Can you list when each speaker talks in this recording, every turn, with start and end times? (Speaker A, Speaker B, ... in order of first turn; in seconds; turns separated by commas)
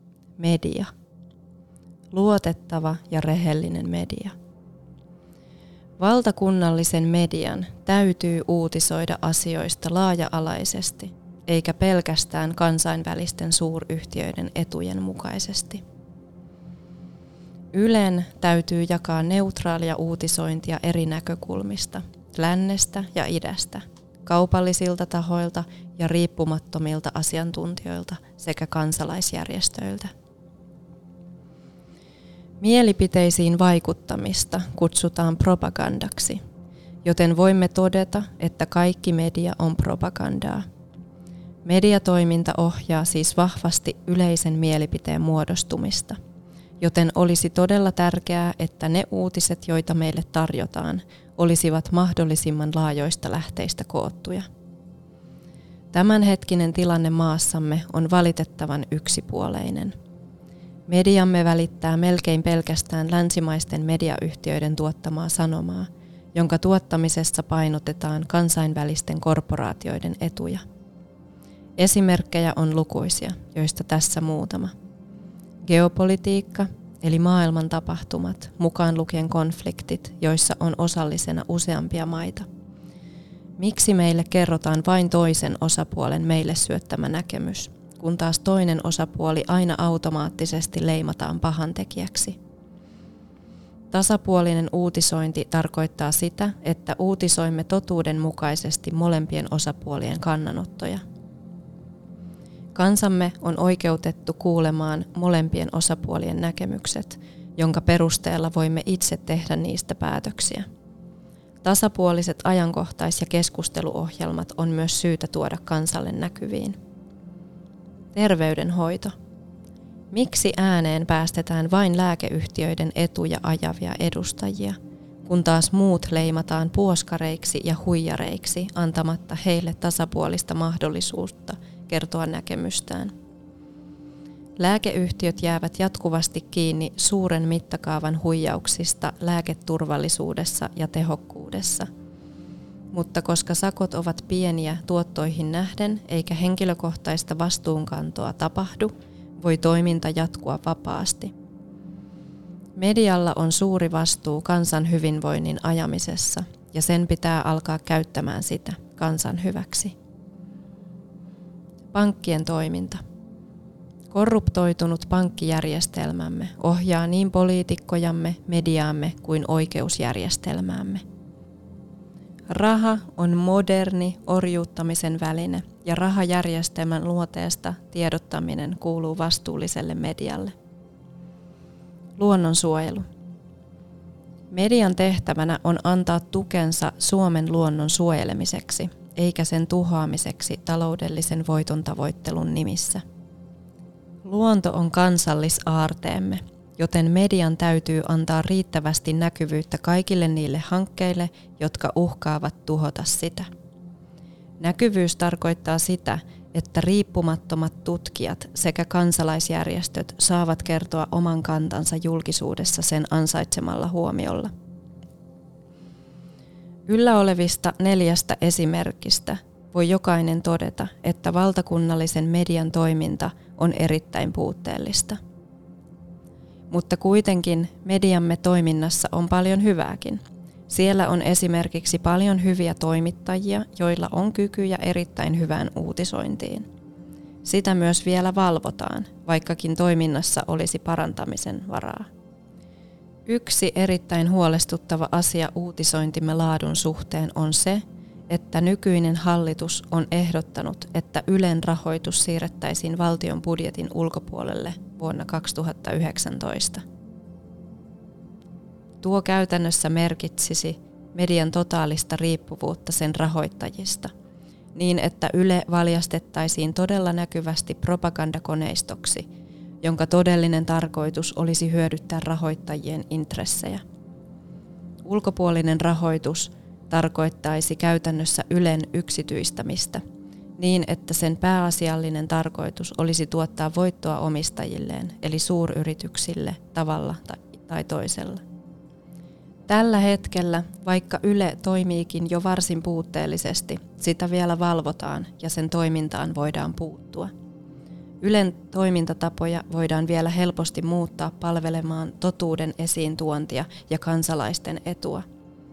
Speaker A: 0.4-0.9, Speaker A: 2.1-4.3, Speaker A: 6.0-15.8, Speaker A: 17.7-30.1, Speaker A: 32.6-36.4, Speaker A: 37.0-40.6, Speaker A: 41.6-46.2, Speaker A: 46.8-54.5, Speaker A: 55.9-59.9, Speaker A: 60.9-70.6, Speaker A: 71.8-74.7, Speaker A: 75.6-82.5, Speaker A: 83.6-92.4, Speaker A: 93.9-101.0, Speaker A: 102.7-110.6, Speaker A: 111.6-116.8, Speaker A: 118.1-119.1, Speaker A: 120.1-133.1, Speaker A: 134.6-141.9, Speaker A: 142.9-151.3, Speaker A: 152.8-159.9, Speaker A: 161.9-163.0, Speaker A: 164.1-171.0, Speaker A: 172.5-180.5, Speaker A: 182.2-183.0, Speaker A: 184.5-193.0, Speaker A: 194.2-203.5, Speaker A: 204.6-214.5, Speaker A: 216.9-225.2, Speaker A: 226.7-236.7, Speaker A: 237.4-242.1, Speaker A: 243.2-256.8, Speaker A: 259.0-264.1, Speaker A: 264.7-269.2, Speaker A: 269.8-273.8, Speaker A: 275.0-280.0, Speaker A: 280.6-288.4, Speaker A: 289.7-297.3, Speaker A: 298.2-305.2